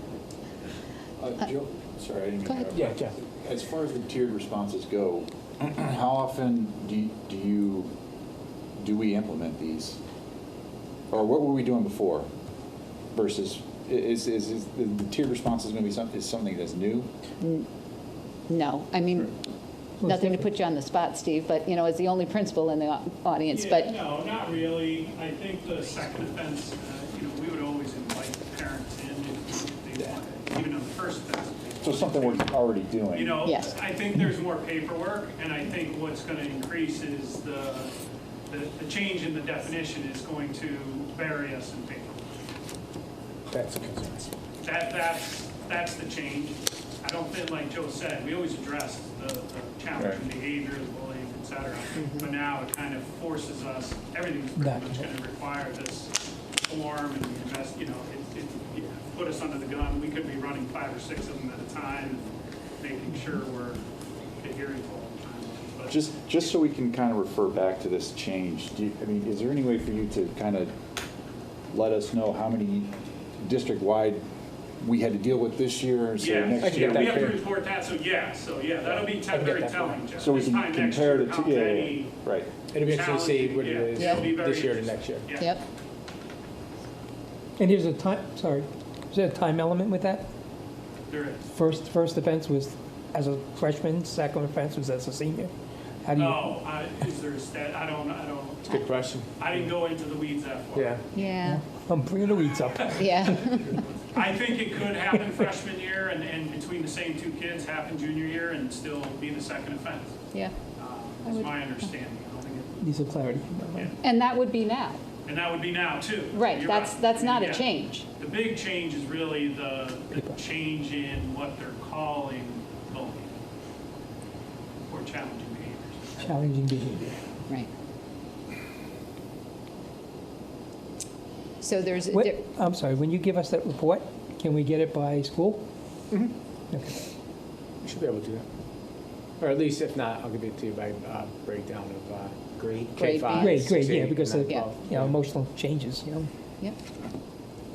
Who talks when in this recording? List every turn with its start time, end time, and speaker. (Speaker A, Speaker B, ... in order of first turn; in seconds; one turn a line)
Speaker A: 1.2-7.9
Speaker B: 2.7-3.1
Speaker A: 8.8-10.0
Speaker A: 11.1-12.3
Speaker A: 13.1-17.1
Speaker C: 17.4-17.7
Speaker C: 18.5-19.4
Speaker D: 20.0-20.5
Speaker C: 20.0-24.0
Speaker E: 23.5-38.0
Speaker A: 31.8-33.4
Speaker C: 33.4-33.8
Speaker E: 38.5-42.2
Speaker B: 43.5-44.3
Speaker E: 44.6-56.1
Speaker A: 50.0-50.2
Speaker D: 54.6-55.0
Speaker E: 56.7-63.8
Speaker E: 64.4-66.5
Speaker A: 65.9-70.7
Speaker A: 71.7-74.2
Speaker A: 74.8-77.4
Speaker E: 76.2-82.1
Speaker B: 76.6-77.4
Speaker B: 78.9-80.0
Speaker A: 80.2-82.5
Speaker B: 82.7-85.3
Speaker E: 82.8-85.6
Speaker C: 84.0-84.3
Speaker C: 85.4-85.6
Speaker D: 87.6-90.3
Speaker E: 91.1-91.5
Speaker D: 91.5-95.5
Speaker D: 96.0-96.5
Speaker E: 96.2-101.2
Speaker B: 98.7-99.3
Speaker B: 100.7-101.0
Speaker C: 101.2-101.6
Speaker D: 101.5-103.6
Speaker E: 102.8-110.2
Speaker C: 103.0-103.8
Speaker D: 105.1-105.4
Speaker E: 110.8-112.9
Speaker C: 111.2-111.5
Speaker D: 112.8-113.9
Speaker E: 113.8-114.0
Speaker C: 114.0-115.0
Speaker E: 115.2-123.3
Speaker C: 116.3-118.1
Speaker E: 124.9-126.4
Speaker D: 126.2-127.2
Speaker C: 131.6-132.5
Speaker D: 132.1-135.6
Speaker D: 136.7-137.0
Speaker B: 137.8-138.5
Speaker B: 139.4-145.2
Speaker C: 143.0-143.7
Speaker D: 143.3-146.3